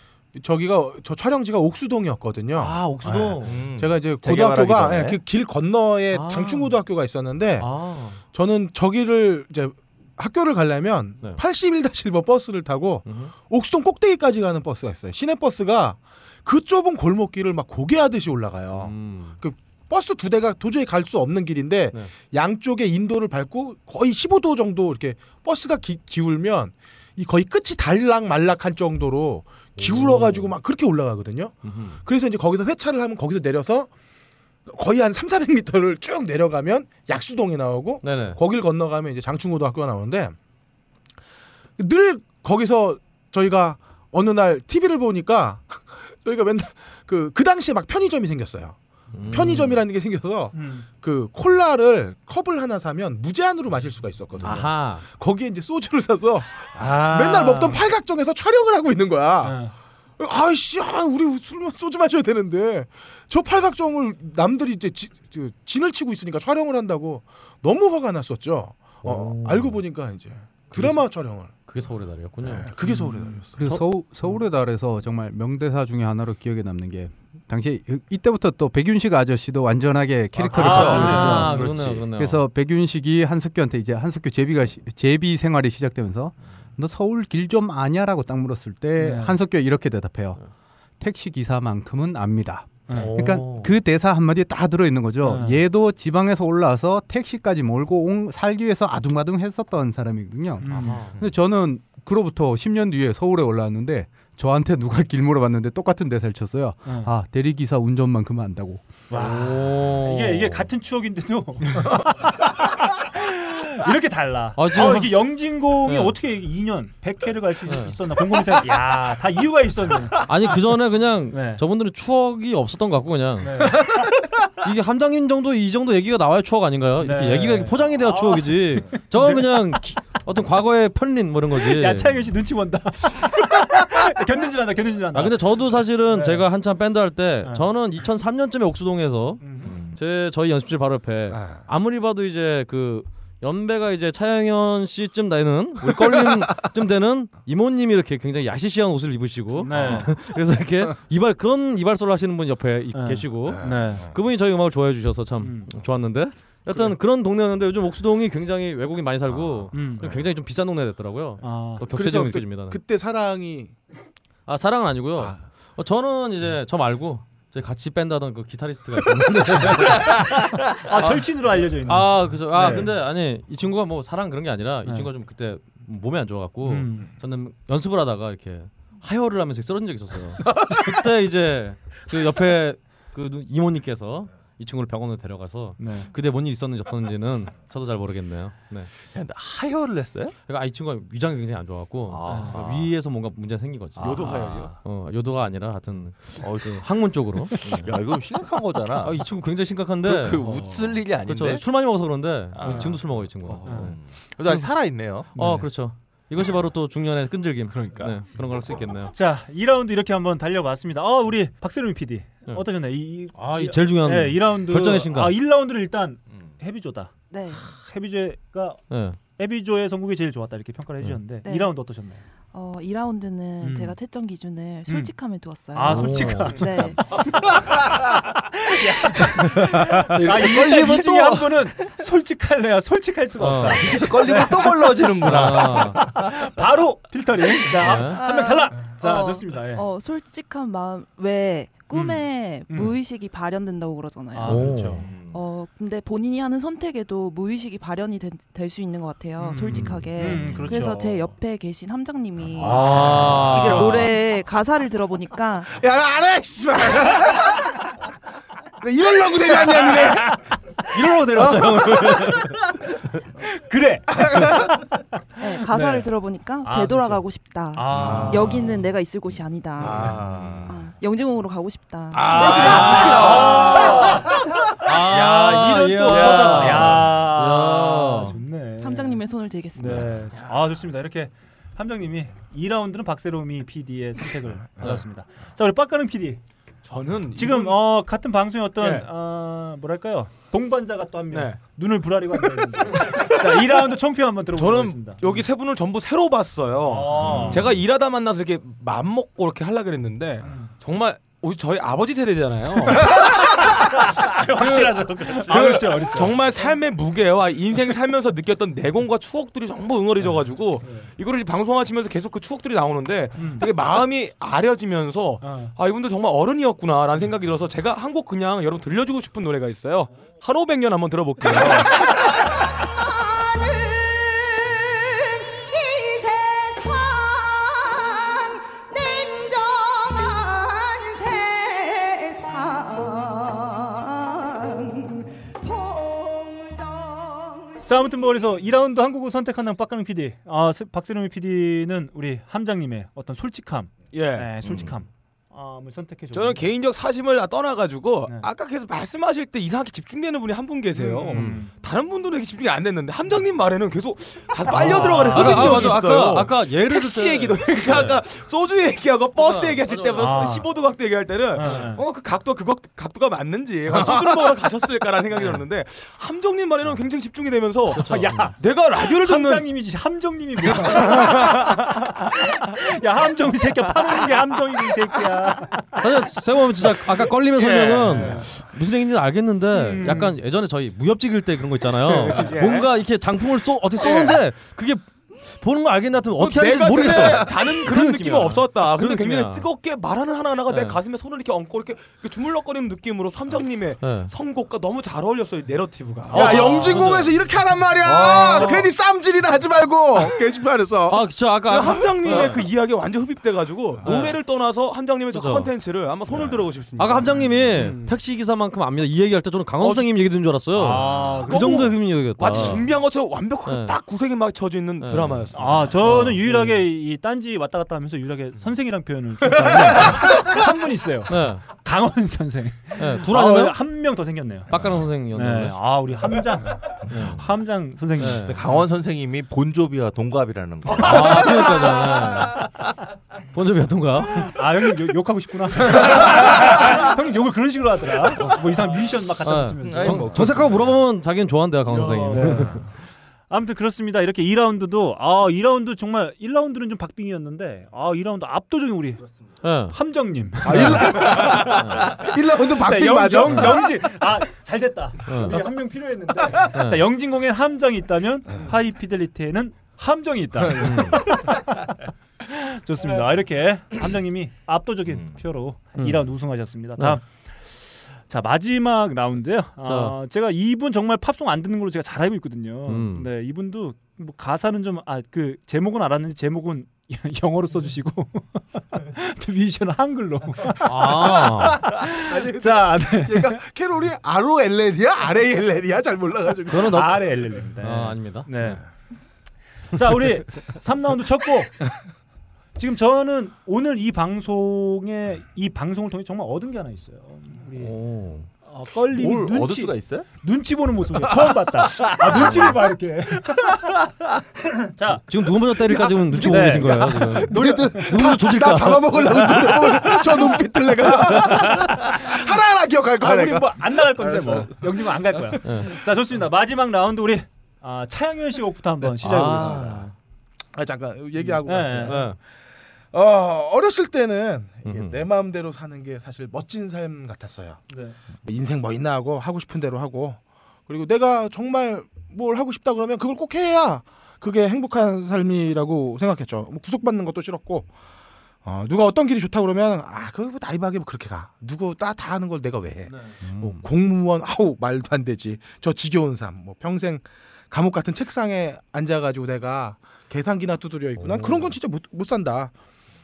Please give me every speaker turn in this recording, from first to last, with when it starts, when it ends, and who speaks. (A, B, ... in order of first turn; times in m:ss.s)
0:00.3-0:07.7 A
0:02.6-0:03.6 B
0:03.4-0:05.2 C
0:06.1-0:06.7 B
0:07.6-0:08.2 B
0:08.3-0:33.9 A
0:13.0-0:13.3 B
0:18.8-0:19.4 B
0:29.8-0:30.5 B
0:31.6-0:32.0 B
0:34.6-0:40.4 A
0:38.0-0:38.4 B
0:41.8-0:48.8 A
0:49.1-0:49.8 B
0:49.3-0:59.6 A
0:50.5-0:50.8 D
0:54.4-0:55.0 B
0:56.8-0:57.8 D
0:59.4-0:59.7 D
1:00.2-1:11.6 A
1:09.0-1:09.8 B
1:10.7-1:11.0 B
1:11.7-1:12.7 B
1:12.4-1:13.6 A
1:12.8-1:13.8 D
1:13.6-1:30.4 E
1:20.5-1:21.6 D
1:20.5-1:22.4 B
1:20.6-1:21.1 C
1:29.0-1:29.4 D
1:31.0-1:48.9 E
1:32.9-1:33.7 B
1:35.2-1:35.6 D
1:40.6-1:41.1 D
1:40.6-1:41.1 B
1:46.8-1:47.1 D
1:49.1-2:00.3 D
1:49.1-1:50.7 B
1:54.6-1:55.3 B
1:55.8-1:56.2 B
1:57.7-1:57.9 B
2:00.2-2:04.0 B
2:01.3-2:01.6 D
2:03.4-2:04.0 D
2:04.6-2:12.2 B
2:07.0-2:09.6 D
2:11.6-2:15.5 D
2:15.1-2:42.8 B
2:16.0-2:16.4 D
2:19.4-2:19.7 D
2:19.7-2:20.0 C
2:29.6-2:30.1 D
2:32.9-2:34.0 D
2:35.4-2:35.7 D
2:39.3-2:40.2 C
2:39.7-2:40.0 D
2:41.4-2:41.8 D
2:41.9-2:43.8 A
2:44.5-2:50.5 B
2:50.3-2:52.9 D
2:51.8-3:08.9 B
2:56.6-2:57.1 D
3:05.8-3:06.1 D
3:09.0-3:10.4 C
3:10.5-3:17.9 B
3:12.1-3:12.9 C
3:12.3-3:12.5 D
3:14.0-3:14.8 C
3:14.0-3:14.7 F
3:16.4-3:16.9 C
3:17.5-3:19.2 C
3:19.0-3:24.0 B
3:20.0-3:21.6 C
3:22.5-3:25.4 C
3:22.6-3:23.0 D
3:23.6-3:23.9 D
3:25.3-3:25.7 D
3:25.3-3:29.1 B
3:27.7-3:28.7 C
3:29.1-3:38.8 D
3:33.3-3:35.3 B
3:37.3-3:37.6 G
3:38.9-3:39.2 B
3:39.4-3:42.2 D
3:41.4-3:41.7 G
3:42.5-3:47.5 G
3:43.6-3:44.0 D
3:44.9-3:45.1 D
3:45.7-3:47.5 D
3:45.8-3:46.8 B
3:48.3-3:59.8 D
3:50.2-3:50.8 C
3:53.4-3:53.9 B
3:53.8-3:56.2 C
3:55.2-3:56.0 B
3:57.8-3:58.2 B
3:58.0-4:04.8 G
4:01.9-4:03.0 D
4:04.3-4:05.1 D
4:04.4-4:05.1 B
4:05.0-4:05.4 C
4:05.3-4:15.7 G
4:09.4-4:11.3 D
4:09.7-4:10.1 B
4:09.8-4:10.7 C
4:12.6-4:14.1 D
4:12.6-4:14.1 B
4:15.6-4:17.8 A
4:18.8-4:20.4 A
4:19.9-4:20.4 D
4:20.8-4:22.6 B
4:21.4-4:22.1 A
4:23.4-4:24.9 D
4:24.2-4:24.7 A
4:25.4-4:30.1 G
4:25.6-4:26.1 D
4:26.6-4:28.6 D
4:27.9-4:28.7 C
4:29.8-4:30.9 C
4:29.9-4:30.5 F
4:30.6-4:34.0 G
4:32.1-4:34.0 B
4:32.3-4:34.3 D
4:34.8-4:38.3 B
4:34.9-4:39.2 D
4:35.6-4:36.9 F
4:38.8-4:40.2 G
4:39.7-4:46.4 D
4:46.8-4:47.8 F
4:47.3-4:55.4 D
4:48.8-4:49.1 F
4:51.3-4:51.6 F
4:54.5-5:22.1 F
4:56.8-4:57.7 D
5:02.9-5:06.4 D
5:10.8-5:11.1 D
5:13.4-5:13.6 D
5:15.4-5:15.7 D
5:37.8-5:46.7 D
5:44.1-5:44.8 F
5:44.6-5:44.9 C
5:46.3-6:09.7 F
5:50.9-5:51.7 D
5:54.7-5:56.0 D
5:54.8-5:58.2 B
5:59.3-6:00.6 B
6:00.2-6:00.7 D
6:01.5-6:02.0 D
6:07.9-6:16.0 D
6:08.0-6:08.5 B
6:10.8-6:11.8 F
6:16.0-6:29.7 B
6:17.6-6:18.5 D
6:19.7-6:20.3 D
6:22.0-6:22.9 F
6:24.0-6:24.4 F
6:26.4-6:37.0 F
6:30.7-6:31.0 B
6:34.0-6:34.3 B
6:36.3-6:38.8 B
6:36.3-6:41.9 A
6:36.3-6:37.0 D
6:41.1-6:42.7 B
6:41.7-6:47.8 F
6:44.0-6:44.4 B
6:45.3-6:45.7 B
6:47.0-6:52.9 B
6:47.8-6:48.0 D
6:49.8-6:50.1 F
6:50.7-6:51.9 D
6:51.4-6:55.9 F
6:53.6-6:54.0 B
6:55.0-6:56.8 B
6:55.5-7:04.8 D
7:01.3-7:01.6 B
7:03.0-7:03.8 B
7:04.7-7:05.8 B
7:05.3-7:08.5 D
7:07.1-7:07.4 B
7:07.1-7:07.4 C
7:08.2-7:08.6 B
7:08.4-7:11.8 C
7:10.9-7:12.7 B
7:13.5-7:14.5 B
7:14.3-7:20.6 D
7:19.4-7:22.8 B
7:19.8-7:21.0 C
7:22.0-7:22.9 D
7:23.5-7:29.3 D
7:29.6-7:29.9 B
7:29.9-7:31.9 D
7:30.6-7:32.1 B
7:30.6-7:33.9 A
7:32.6-7:41.8 D
7:35.3-7:35.6 B
7:36.7-7:37.0 B
7:40.7-7:41.4 B
7:42.5-7:47.2 D
7:45.1-7:45.4 C
7:48.2-8:03.6 D
7:49.8-7:50.1 B
7:52.9-7:53.3 B
8:00.8-8:01.8 B
8:02.2-8:07.1 A
8:06.7-8:08.5 B
8:06.8-8:08.8 D
8:09.9-8:11.9 D
8:12.8-8:17.9 D
8:17.8-8:18.5 B
8:18.6-8:24.0 D
8:19.1-8:20.3 C
8:21.8-8:22.7 C
8:22.4-8:22.7 B
8:24.7-8:25.2 D
8:25.3-8:30.4 B
8:25.8-8:34.8 A
8:26.3-8:28.1 D
8:31.4-8:32.3 D
8:33.2-8:40.1 D
8:35.6-8:35.9 B
8:39.2-8:40.1 B
8:40.7-8:42.4 A
8:41.5-8:42.3 D
8:42.0-8:42.4 B
8:43.1-8:47.8 A
8:44.8-8:45.2 B
8:47.9-8:48.2 D
8:48.4-8:57.9 A
8:58.6-9:12.7 A
9:03.2-9:03.8 B
9:11.2-9:11.7 B